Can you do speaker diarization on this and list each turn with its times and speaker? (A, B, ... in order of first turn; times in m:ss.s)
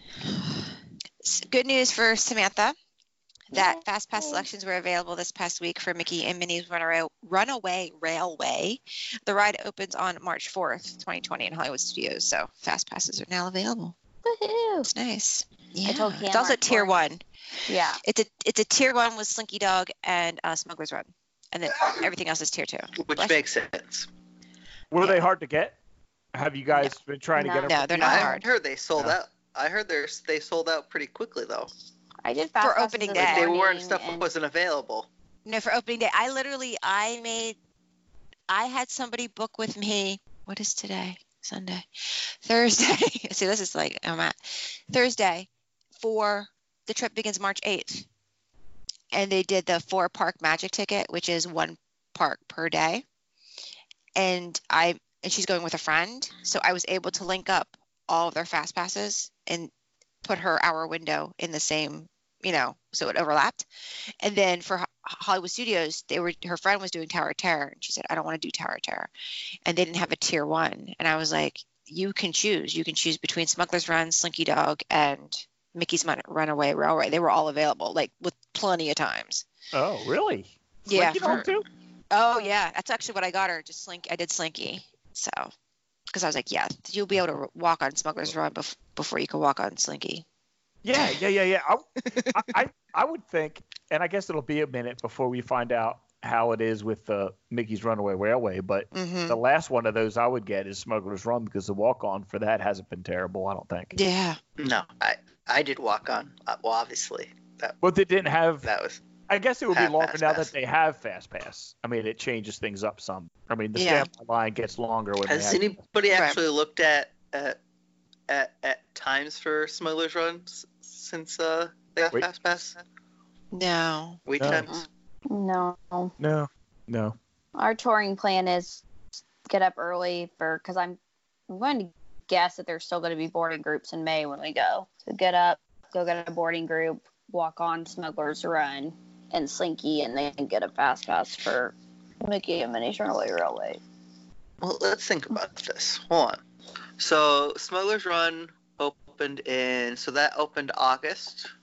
0:00.2-0:02.8 A
0:03.5-0:14.0 A
0:03.5-0:04.5 B
0:14.2-0:14.9 B
0:14.9-0:17.2 A
0:15.9-0:17.0 B
0:17.7-0:18.0 B
0:18.0-0:23.4 A
0:23.0-0:24.1 C
0:24.9-0:25.8 D
0:26.3-0:28.3 D
0:26.9-0:28.0 B
0:27.6-0:28.5 A
0:28.0-0:31.7 C
0:32.2-0:34.3 B
0:32.6-0:33.5 A
0:33.1-0:35.1 C
0:35.4-0:37.6 A
0:38.5-0:48.1 A
0:49.1-0:53.0 A
0:54.2-0:59.7 A
1:00.2-1:03.7 A
1:04.2-1:09.1 A
1:09.7-1:19.5 A
1:19.7-1:21.7 D
1:20.9-1:21.5 A
1:22.1-1:25.5 A
1:26.1-1:30.2 A
1:30.8-1:44.0 D
1:32.1-1:32.4 A
1:38.9-1:39.4 A
1:43.9-1:44.4 A
1:44.6-1:47.8 C
1:47.8-1:48.7 D
1:48.6-1:49.0 C
1:49.3-1:55.8 D
1:49.7-1:50.5 C
1:53.8-1:54.1 A
1:55.3-1:57.6 C
1:56.1-1:56.4 A
1:58.3-2:02.8 C
2:03.5-2:04.2 A
2:04.3-2:04.8 C
2:04.4-2:04.7 D
2:04.7-2:06.1 B
2:06.2-2:07.2 D
2:07.6-2:08.8 B
2:09.5-2:11.0 B
2:11.5-2:23.8 B
2:24.6-2:26.4 C
2:27.0-2:31.5 C